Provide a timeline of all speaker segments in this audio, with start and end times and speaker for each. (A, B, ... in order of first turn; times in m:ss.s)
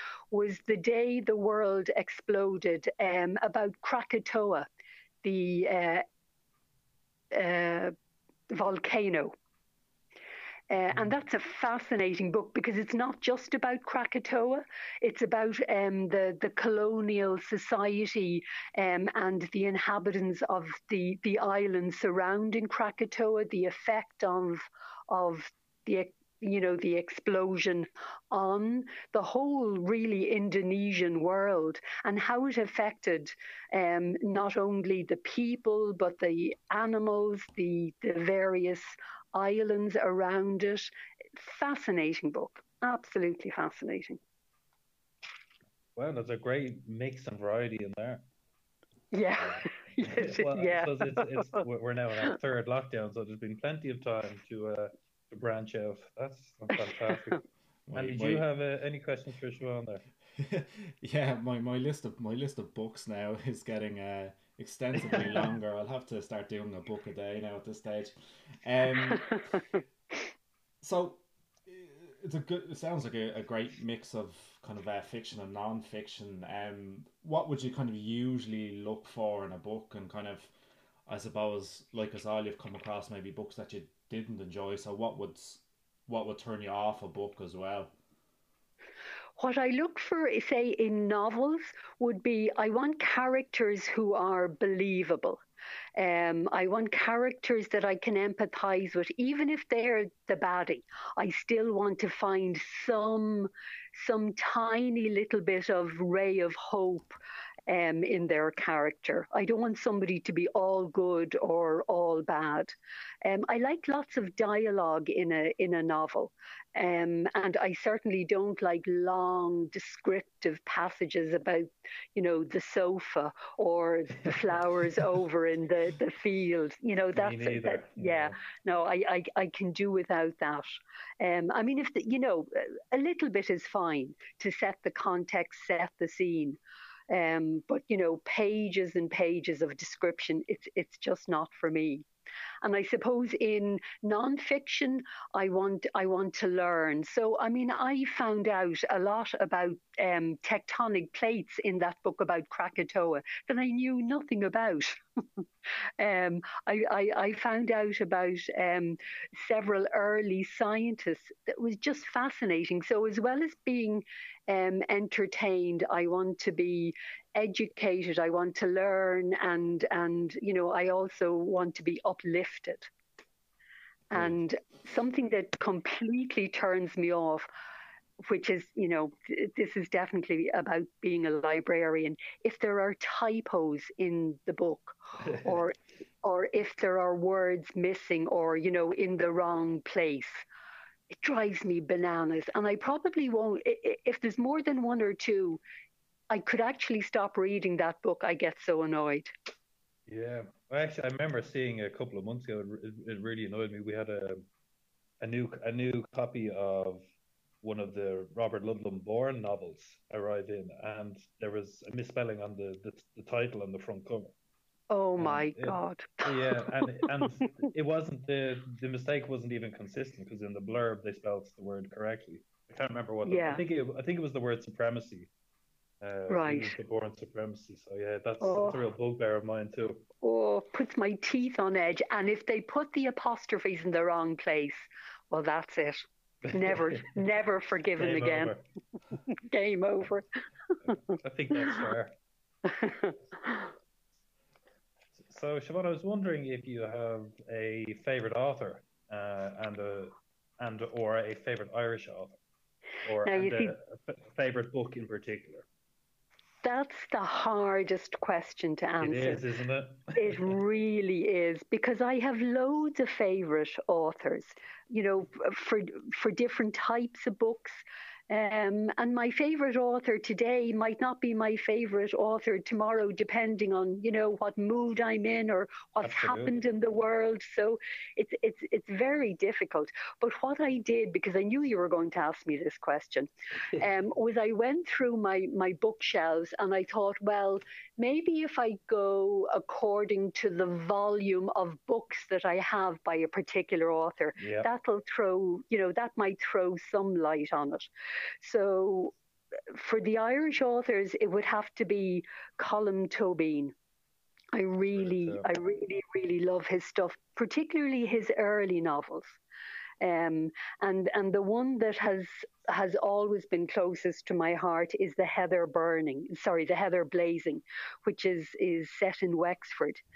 0:00.3-0:04.7 A
0:05.2-0:06.0 A
0:07.3-0:07.9 A
0:08.5-0:09.3 A
0:10.7-0:44.2 A
0:46.0-0:48.2 B
0:49.1-0:51.6 A
0:49.4-0:57.4 B
0:56.9-0:57.4 A
0:57.9-0:58.5 C
0:57.9-1:00.0 B
1:00.3-1:09.4 C
1:09.1-1:09.6 A
1:10.8-1:20.5 C
1:21.1-1:27.9 C
1:29.4-1:35.4 A
1:36.0-1:47.2 A
1:47.7-2:16.6 A
2:07.1-2:08.4 B
2:17.1-2:22.1 A
2:22.6-2:35.4 A
2:36.0-2:52.9 A
2:54.1-2:57.5 A
2:58.2-3:10.4 A
3:11.1-3:15.6 A
3:16.3-3:19.3 A
3:20.1-3:24.4 B
3:25.2-3:27.0 B
3:27.6-3:34.3 B
3:34.9-3:37.5 A
3:35.2-3:45.3 B
3:43.2-3:43.6 A
3:46.0-3:50.0 B
3:46.3-3:46.8 A
3:48.4-3:48.8 A
3:50.2-3:58.5 A
3:56.5-3:57.2 B
3:58.0-3:58.6 B
3:59.3-4:00.2 A
4:00.8-4:01.9 A
4:01.2-4:02.1 B
4:02.6-4:03.7 A
4:05.2-4:12.4 B
4:13.0-4:15.6 B
4:13.2-4:13.7 A
4:16.6-4:19.4 A
4:19.0-4:20.6 B
4:20.1-4:57.9 A
4:36.0-4:36.5 B
4:54.4-4:54.7 B
4:58.4-4:59.1 A
4:59.7-5:03.7 A
5:04.5-5:09.4 A
5:04.9-5:05.5 B
5:10.0-5:20.0 A